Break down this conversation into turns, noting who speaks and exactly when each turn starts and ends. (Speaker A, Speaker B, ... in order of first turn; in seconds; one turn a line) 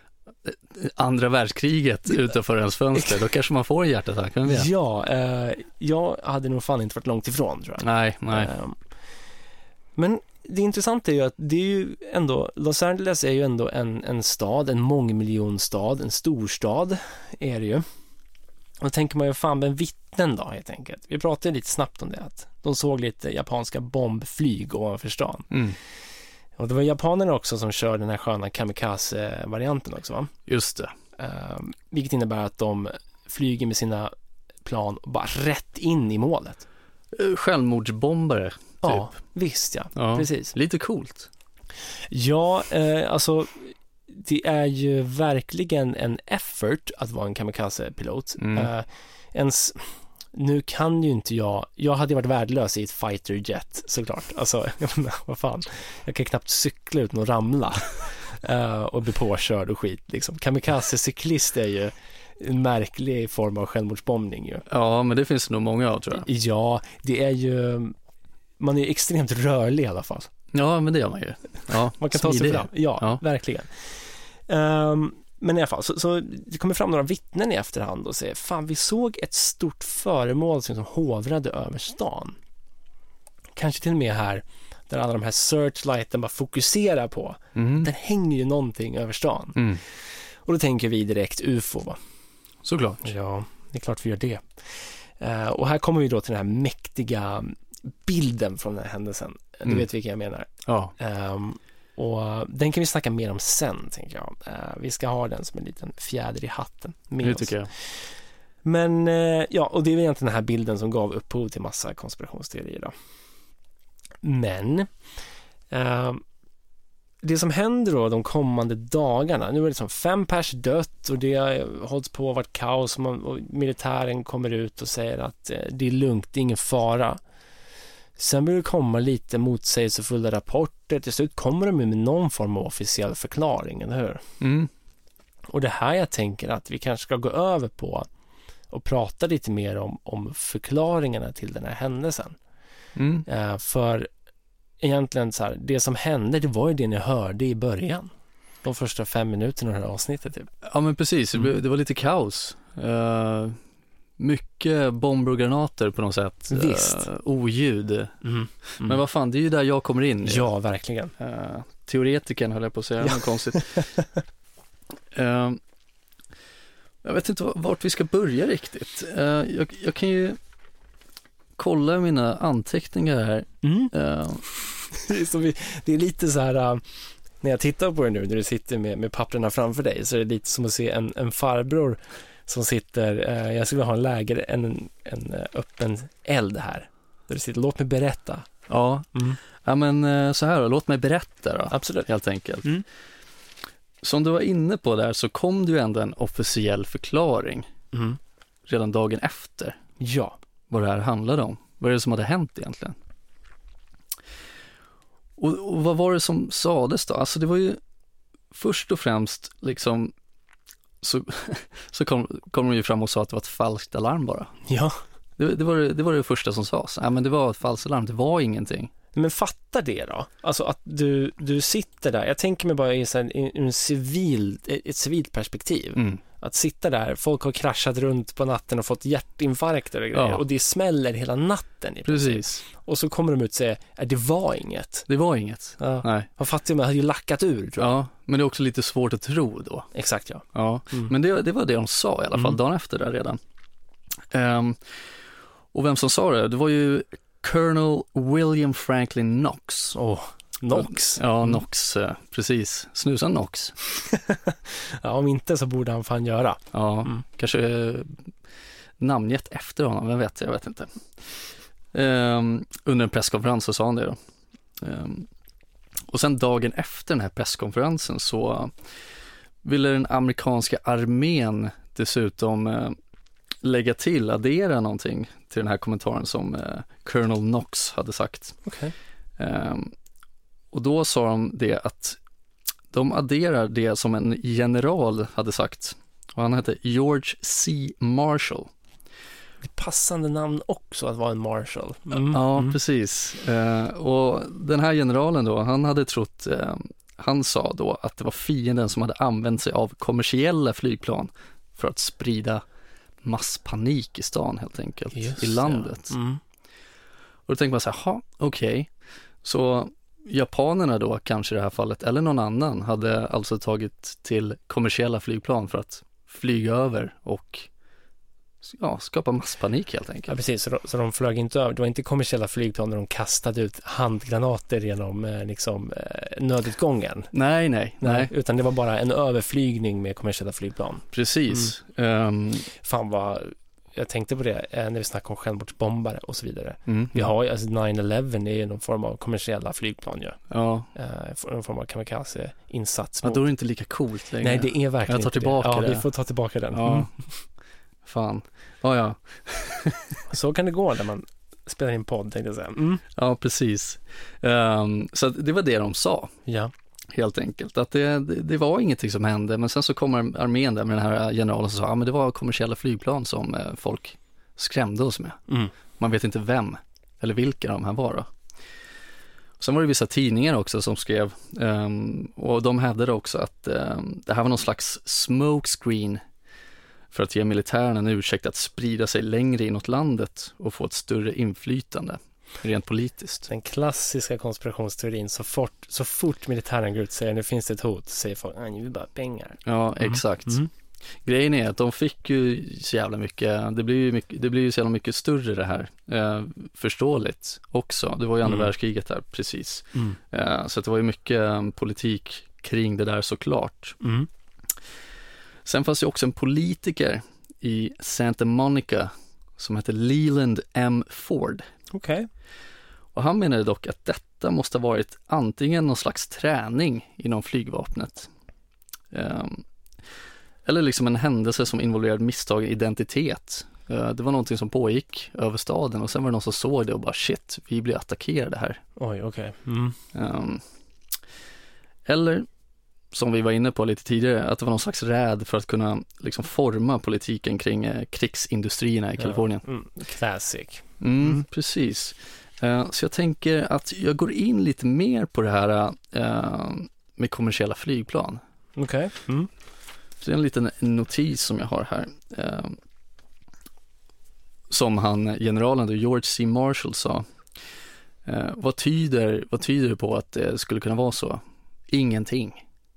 Speaker A: 0.4-4.7
Speaker B: 4.5-8.8
Speaker A: 7.8-8.5
Speaker B: 10.0-17.9
Speaker B: 18.8-25.5
Speaker A: 25.5-25.8
Speaker B: 26.6-30.3
Speaker A: 30.5-30.9
Speaker B: 31.2-34.1
Speaker B: 34.6-36.6
Speaker A: 37.1-39.0
Speaker B: 38.8-40.5
Speaker A: 40.0-41.3
Speaker B: 42.1-64.7
Speaker A: 48.4-48.7
Speaker A: 64.7-66.3
Speaker B: 66.2-68.0
Speaker B: 68.6-70.3
Speaker A: 70.5-73.2
Speaker B: 72.0-73.9
Speaker B: 74.5-82.4
Speaker B: 83.6-89.7
Speaker A: 87.6-87.9
Speaker A: 89.6-89.8
Speaker B: 90.5-92.0
Speaker A: 92.6-93.1
Speaker B: 93.0-94.4
Speaker B: 95.2-97.5
Speaker B: 98.1-107.6
Speaker A: 100.7-100.9
Speaker A: 107.2-107.7
Speaker B: 108.6-112.9
Speaker B: 114.2-114.9
Speaker B: 115.7-116.2
Speaker B: 117.2-127.2
Speaker B: 128.2-134.2
Speaker A: 134.4-134.7
Speaker B: 135.5-138.1
Speaker B: 138.7-142.4
Speaker A: 143.0-143.3
Speaker B: 143.3-144.1
Speaker B: 144.8-148.1
Speaker B: 148.6-150.5
Speaker A: 150.6-153.6
Speaker A: 154.2-158.2
Speaker B: 156.5-157.1
Speaker B: 158.2-159.0
Speaker A: 158.8-160.5
Speaker B: 160.2-161.1
Speaker A: 161.2-163.9
Speaker B: 163.0-164.1
Speaker A: 165.1-165.6
Speaker A: 167.0-170.4
Speaker A: 171.6-174.4
Speaker B: 173.6-173.9
Speaker B: 174.9-176.8
Speaker B: 177.4-188.5
Speaker A: 188.7-192.7
Speaker B: 191.7-192.1
Speaker A: 194.0-197.7
Speaker B: 197.9-198.2
Speaker A: 198.7-199.8
Speaker B: 200.0-200.4
Speaker A: 200.7-203.0
Speaker A: 205.4-207.8
Speaker A: 208.5-210.1
Speaker A: 211.0-214.5
Speaker B: 214.7-215.0
Speaker A: 215.4-218.9
Speaker B: 219.1-235.1
Speaker A: 230.1-230.4
Speaker A: 232.1-232.6
Speaker A: 235.1-236.3
Speaker B: 235.8-237.9
Speaker A: 237.8-239.9
Speaker B: 239.9-241.1
Speaker A: 240.5-243.4
Speaker A: 244.3-244.8
Speaker A: 245.7-250.0
Speaker B: 249.9-251.6
Speaker A: 250.7-253.8
Speaker B: 254.1-257.2
Speaker A: 256.7-258.2
Speaker A: 259.0-260.9
Speaker A: 261.9-264.2
Speaker A: 264.8-265.3
Speaker A: 266.1-268.7
Speaker A: 269.6-273.0
Speaker A: 273.6-278.6
Speaker B: 278.6-278.9
Speaker A: 279.4-279.9
Speaker A: 280.7-282.2
Speaker A: 282.9-288.7
Speaker B: 289.6-292.8
Speaker A: 292.1-302.6
Speaker A: 303.2-306.2
Speaker B: 305.1-306.4
Speaker A: 307.5-308.9
Speaker A: 309.4-317.7
Speaker A: 318.6-320.4
Speaker B: 320.3-327.3
Speaker A: 327.3-328.3
Speaker B: 328.0-331.7
Speaker A: 331.1-332.7
Speaker B: 332.8-340.4
Speaker A: 336.9-337.3
Speaker A: 340.5-340.9
Speaker B: 340.9-343.4
Speaker A: 343.2-346.1
Speaker B: 344.4-347.1
Speaker A: 346.7-347.1
Speaker A: 348.0-350.2
Speaker B: 350.3-353.0
Speaker A: 353.1-356.3
Speaker B: 356.5-356.7
Speaker A: 357.1-365.4
Speaker A: 366.0-368.3
Speaker A: 369.6-376.2
Speaker A: 377.1-383.5
Speaker B: 383.5-390.7
Speaker A: 389.6-390.6
Speaker A: 391.2-404.0
Speaker B: 398.4-398.7
Speaker B: 404.0-404.3
Speaker A: 405.6-411.6
Speaker B: 411.9-412.3
Speaker A: 413.1-418.3
Speaker A: 419.1-419.6
Speaker A: 420.6-428.8
Speaker B: 429.0-430.0
Speaker A: 430.1-430.6
Speaker A: 432.1-432.5
Speaker A: 433.1-439.6
Speaker B: 439.2-441.4
Speaker A: 441.0-448.4
Speaker B: 448.8-449.5
Speaker A: 450.2-452.8
Speaker A: 454.7-457.2
Speaker A: 458.2-462.6